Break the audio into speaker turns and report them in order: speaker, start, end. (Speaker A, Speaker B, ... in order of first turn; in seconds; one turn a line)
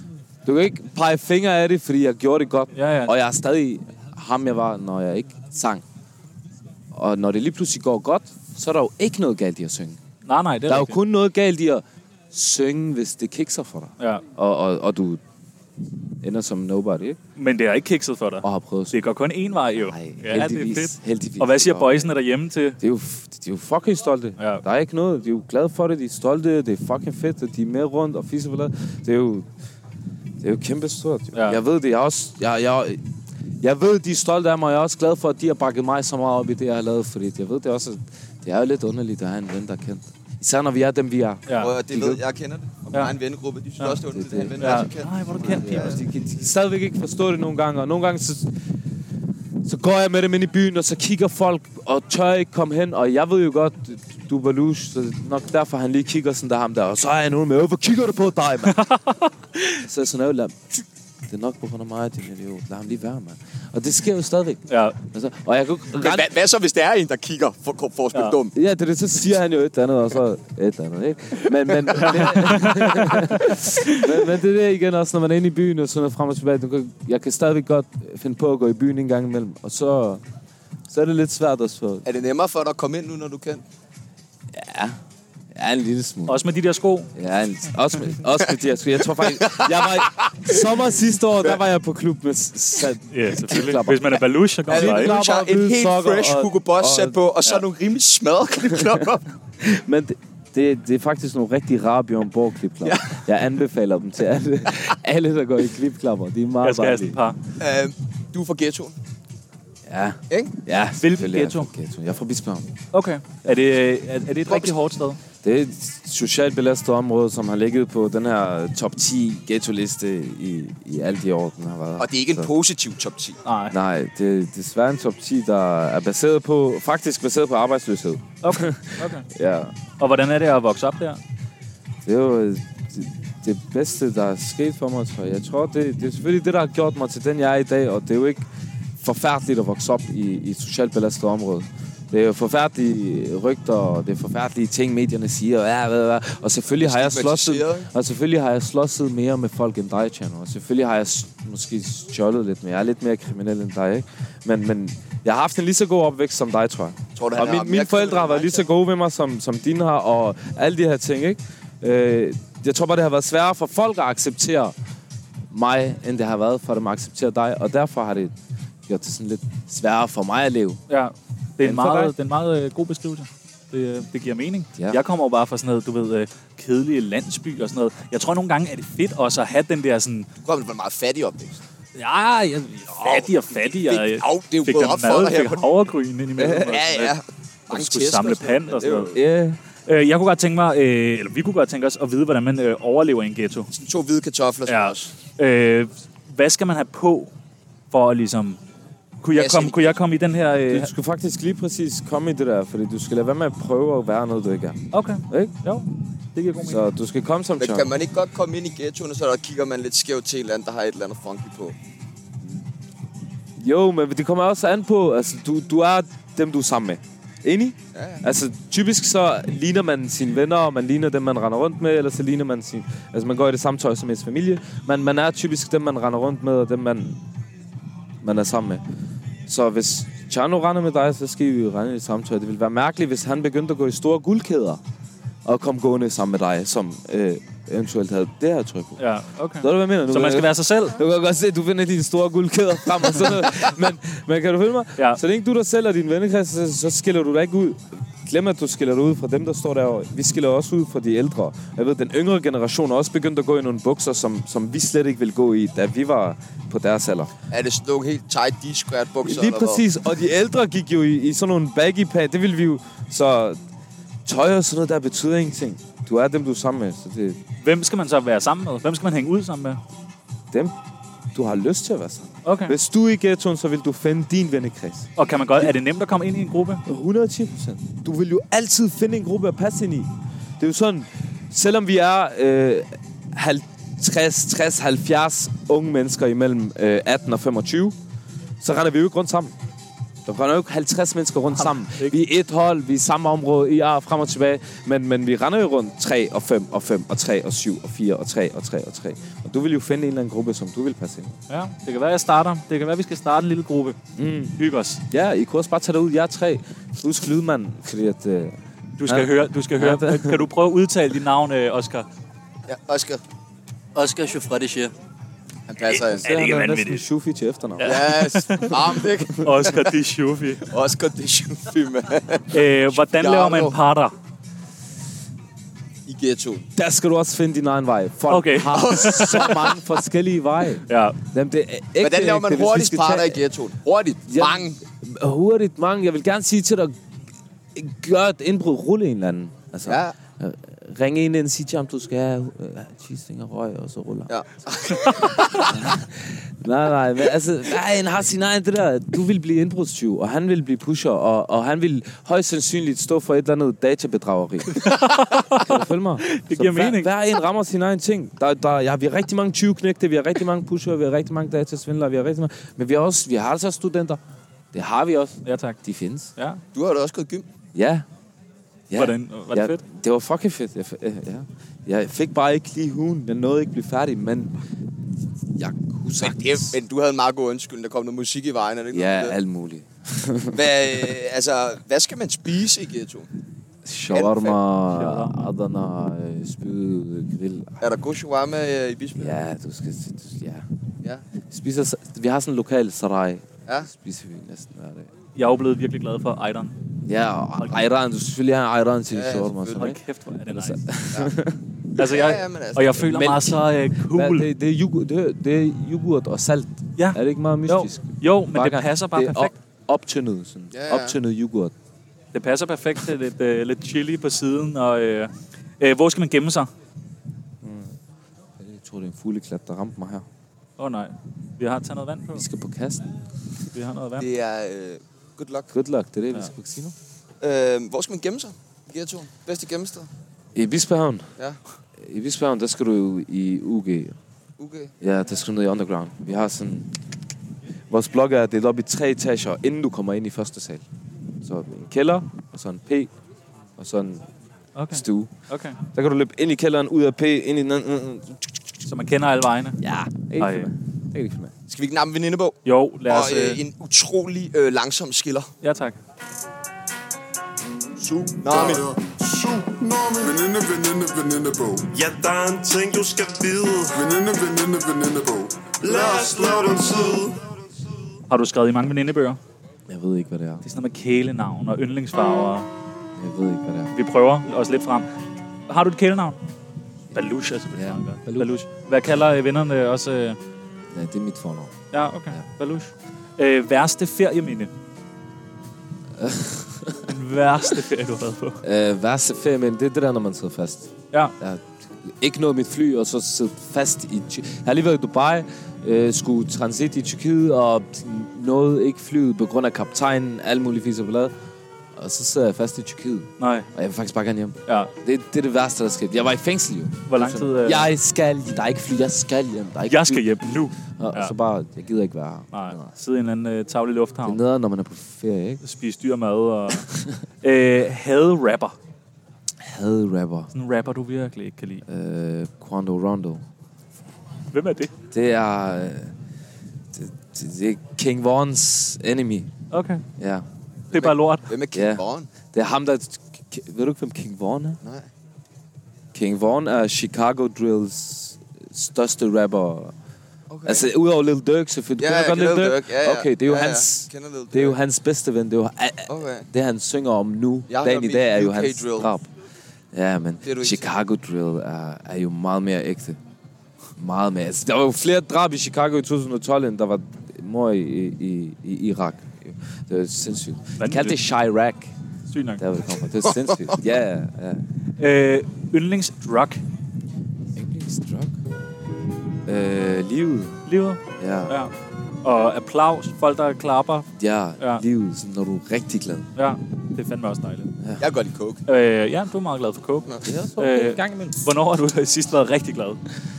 Speaker A: 0.4-5.8
Speaker B: 2.7-3.1
Speaker A: 6.9-10.0
Speaker B: 10.2-11.0
Speaker A: 10.7-15.2
Speaker A: 16.2-17.2
Speaker B: 17.4-22.8
Speaker A: 18.4-19.0
Speaker A: 19.8-22.1
Speaker A: 22.8-29.5
Speaker B: 24.4-24.6
Speaker A: 30.4-33.0
Speaker B: 31.3-31.6
Speaker A: 33.6-42.2
Speaker C: 41.6-46.0
Speaker A: 44.1-44.9
Speaker B: 44.6-45.9
Speaker A: 45.4-48.5
Speaker A: 49.6-58.8
Speaker B: 58.7-59.8
Speaker A: 59.8-66.3
Speaker B: 64.7-65.0
Speaker C: 66.0-68.5
Speaker A: 68.5-80.2
Speaker B: 72.0-74.0
Speaker A: 80.9-82.0
Speaker C: 82.0-83.6
Speaker A: 84.5-85.0
Speaker A: 85.5-86.4
Speaker B: 86.3-87.1
Speaker A: 87.1-97.2
Speaker C: 89.4-90.3
Speaker B: 93.1-95.1
Speaker C: 94.7-99.2
Speaker A: 99.6-107.2
Speaker C: 102.8-103.2
Speaker B: 106.6-107.4
Speaker C: 107.6-109.0
Speaker A: 109.8-112.7
Speaker C: 110.3-110.5
Speaker B: 111.0-111.7
Speaker B: 112.9-115.2
Speaker A: 115.4-122.5
Speaker C: 122.0-123.4
Speaker B: 123.4-123.8
Speaker A: 123.7-129.7
Speaker B: 128.4-129.2
Speaker B: 130.0-131.2
Speaker A: 132.0-138.4
Speaker A: 139.0-164.7
Speaker C: 146.8-147.9
Speaker C: 157.2-158.7
Speaker A: 165.5-168.3
Speaker A: 168.9-170.8
Speaker B: 170.9-180.3
Speaker A: 171.6-172.1
Speaker A: 174.8-175.0
Speaker C: 180.4-181.6
Speaker B: 181.9-187.1
Speaker C: 183.0-185.7
Speaker C: 186.4-189.1
Speaker B: 187.7-189.1
Speaker A: 189.1-189.6
Speaker B: 189.8-193.7
Speaker C: 193.7-195.1
Speaker B: 194.7-197.3
Speaker B: 197.9-198.6
Speaker B: 199.2-200.9
Speaker C: 199.3-199.9
Speaker A: 200.7-205.5
Speaker B: 204.9-206.8
Speaker A: 206.6-207.9
Speaker C: 207.6-211.7
Speaker A: 213.6-227.2
Speaker C: 217.9-218.2
Speaker A: 228.2-228.8
Speaker A: 229.5-234.8
Speaker A: 235.4-239.0
Speaker B: 239.0-241.0
Speaker A: 239.6-257.3
Speaker C: 257.5-259.8
Speaker A: 259.2-263.6
Speaker A: 264.2-267.4
Speaker B: 267.6-269.8
Speaker A: 271.3-275.7
Speaker B: 272.4-272.7
Speaker B: 275.2-276.8
Speaker A: 276.8-287.9
Speaker A: 288.6-289.5
Speaker A: 290.2-301.3
Speaker B: 291.6-292.1
Speaker B: 301.5-304.0
Speaker A: 304.1-304.6
Speaker B: 304.6-305.0
Speaker A: 305.1-310.5
Speaker B: 309.0-312.1
Speaker C: 312.7-313.2
Speaker B: 313.9-314.9
Speaker C: 315.7-316.2
Speaker B: 316.1-317.0
Speaker A: 316.1-318.3
Speaker B: 317.8-318.7
Speaker C: 317.8-319.8
Speaker B: 319.4-320.7
Speaker C: 320.7-323.7
Speaker B: 322.5-324.1
Speaker C: 326.1-326.6
Speaker A: 326.8-333.4
Speaker B: 328.3-329.5
Speaker C: 328.7-329.7
Speaker B: 330.9-331.1
Speaker C: 332.0-334.8
Speaker A: 334.3-336.9
Speaker A: 337.7-344.3
Speaker C: 339.8-340.1
Speaker C: 344.3-345.7
Speaker A: 345.5-355.0
Speaker B: 354.7-357.1
Speaker A: 355.5-364.2
Speaker A: 364.7-366.3
Speaker B: 365.4-365.8
Speaker B: 366.4-366.6
Speaker C: 366.7-367.4
Speaker A: 367.7-368.1
Speaker A: 368.9-374.6
Speaker B: 368.9-369.8
Speaker A: 375.5-376.8
Speaker C: 376.2-379.4
Speaker A: 378.9-381.1
Speaker C: 380.5-383.3
Speaker A: 383.8-387.8
Speaker C: 384.1-384.6
Speaker B: 384.9-385.5
Speaker C: 387.8-389.4
Speaker A: 389.1-390.7
Speaker A: 391.5-395.1
Speaker B: 395.4-396.7
Speaker A: 397.0-400.0
Speaker C: 399.1-399.9
Speaker B: 399.8-400.8
Speaker A: 400.5-401.6
Speaker C: 402.0-403.0
Speaker B: 402.0-404.5
Speaker A: 403.0-411.7
Speaker B: 407.0-409.5
Speaker C: 410.7-411.2
Speaker B: 412.3-416.7
Speaker A: 417.6-417.9
Speaker A: 418.6-420.2
Speaker B: 420.8-422.4
Speaker A: 422.3-423.1
Speaker B: 423.7-424.2
Speaker C: 424.2-425.7
Speaker A: 425.7-426.9
Speaker C: 427.4-430.1
Speaker A: 430.5-431.3
Speaker A: 432.0-434.1
Speaker C: 434.6-434.9
Speaker A: 435.0-436.9
Speaker A: 437.9-440.8
Speaker A: 441.4-443.1
Speaker A: 443.8-444.3
Speaker B: 444.8-445.8
Speaker A: 444.9-445.3
Speaker A: 445.9-448.6
Speaker B: 448.9-449.8
Speaker A: 449.8-451.5
Speaker B: 450.4-450.7
Speaker C: 451.7-455.5
Speaker B: 452.6-453.6
Speaker B: 455.6-456.0
Speaker D: 458.1-461.9
Speaker C: 458.4-458.8
Speaker E: 461.9-464.0
Speaker D: 463.9-466.9
Speaker E: 465.8-467.4
Speaker B: 468.3-469.4
Speaker A: 469.9-470.6
Speaker B: 470.6-472.7
Speaker A: 473.1-473.9
Speaker B: 473.9-475.1
Speaker B: 475.7-476.4
Speaker B: 477.1-480.4
Speaker A: 477.7-478.5
Speaker A: 480.9-482.4
Speaker B: 481.9-484.7
Speaker A: 486.2-487.1
Speaker B: 487.1-488.6
Speaker A: 488.6-501.3
Speaker A: 501.9-512.9
Speaker B: 503.4-503.7
Speaker B: 504.7-504.9
Speaker B: 507.1-507.9
Speaker B: 509.9-511.3
Speaker B: 512.5-514.4
Speaker A: 514.2-515.6
Speaker B: 515.6-516.9
Speaker A: 516.9-517.1
Speaker B: 517.4-518.7
Speaker A: 519.6-520.5
Speaker B: 520.5-521.8
Speaker A: 521.9-523.4
Speaker B: 524.5-524.9
Speaker A: 525.1-526.1
Speaker A: 526.9-529.5
Speaker B: 529.7-530.0
Speaker A: 530.2-530.5
Speaker B: 530.9-531.5
Speaker C: 530.9-532.3
Speaker A: 531.7-534.8
Speaker A: 536.1-539.9
Speaker C: 540.5-540.9
Speaker A: 540.6-549.3
Speaker C: 542.0-544.8
Speaker C: 546.1-546.5
Speaker C: 547.7-549.1
Speaker A: 549.9-553.2
Speaker C: 550.4-550.8
Speaker A: 554.0-561.9
Speaker B: 560.8-561.2
Speaker B: 562.3-562.6
Speaker A: 562.6-564.6
Speaker B: 565.0-566.6
Speaker A: 567.5-568.3
Speaker A: 569.5-570.6
Speaker B: 570.6-571.7
Speaker A: 571.2-571.6
Speaker B: 572.2-574.1
Speaker A: 574.1-576.3
Speaker B: 576.4-577.7
Speaker A: 577.8-578.0
Speaker C: 578.0-578.6
Speaker B: 578.7-583.0
Speaker A: 580.2-581.5